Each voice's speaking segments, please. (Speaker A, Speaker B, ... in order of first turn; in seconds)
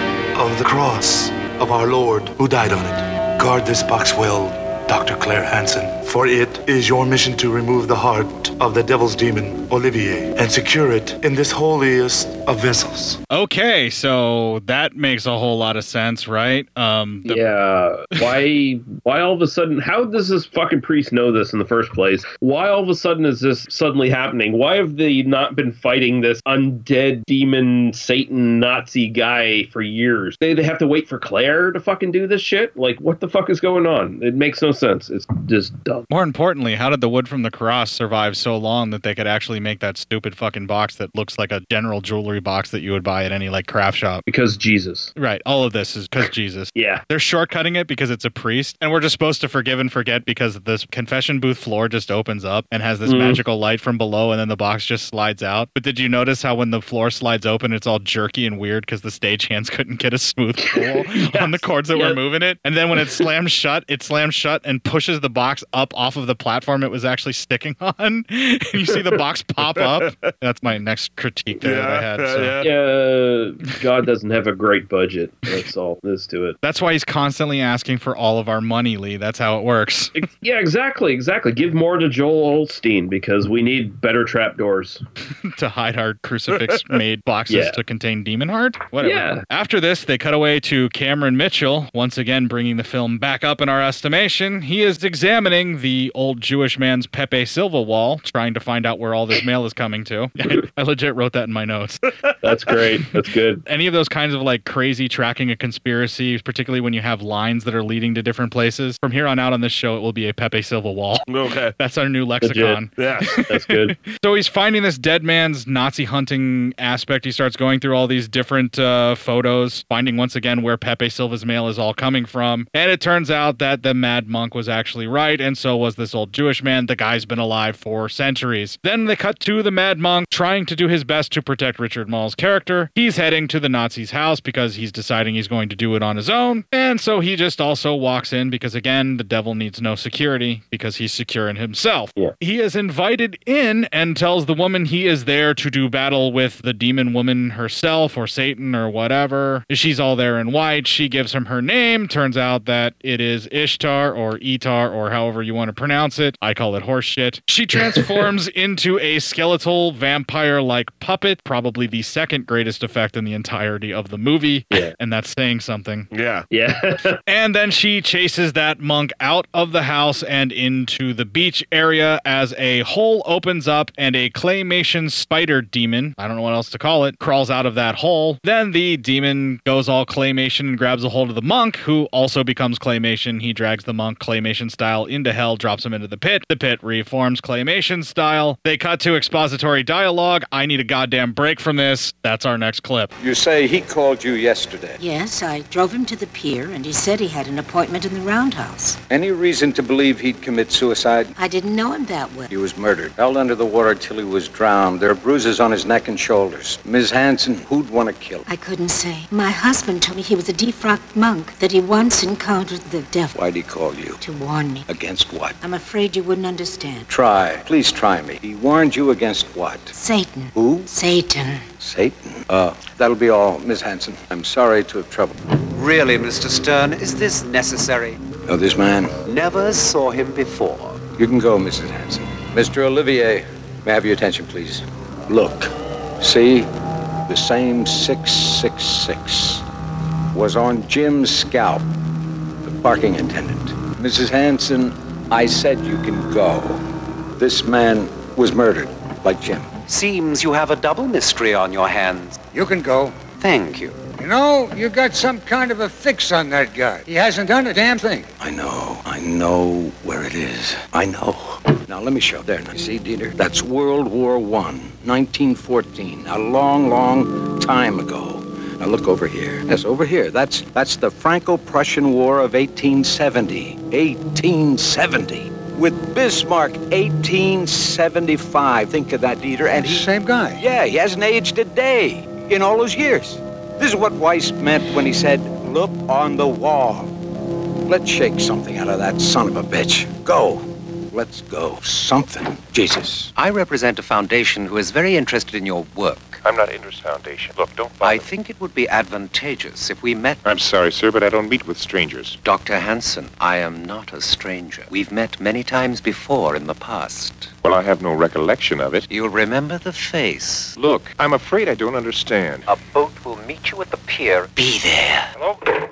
Speaker A: 0.3-13.2
Speaker B: 13.3-17.4, 36.1-44.2, 45.1-72.6, 76.6-80.1, 85.4-102.0, 103.6-111.2, 111.8-113.4, 114.0-166.1, 167.3-193.1
Speaker C: 17.2-36.0, 44.3-45.1, 46.7-47.0, 53.1-53.4, 60.6-62.2, 72.6-76.6, 80.2-85.0, 87.5-87.8, 89.0-89.4, 102.4-103.6, 112.4-112.8, 113.5-113.9, 157.8-158.2, 166.5-167.2
Speaker D: 69.8-70.1, 71.6-72.7, 111.3-111.7, 113.0-113.4, 166.1-166.4
Speaker E: 193.2-195.0, 199.1-201.3, 202.5-208.4, 213.3-214.2, 214.9-215.6, 217.1-219.9, 220.5-220.9, 221.8-225.3, 228.4-229.2, 231.1-236.7, 237.3-239.6, 240.3-241.8, 242.6-246.8, 247.4-249.7, 258.4-287.1, 287.9-293.3
Speaker F: 195.0-199.0, 201.3-202.5, 208.4-213.4, 214.2-214.8, 215.6-217.1, 219.9-221.7
Speaker G: 225.7-228.2, 229.2-231.1, 249.9-252.4, 253.3-254.0, 293.4-296.4, 298.0-300.4, 302.4-307.5, 309.1-310.8, 312.7-315.3
Speaker H: 252.5-253.1, 254.2-258.2, 280.2-280.5
Speaker I: 296.4-298.3, 300.4-302.4, 307.6-309.1, 310.8-312.7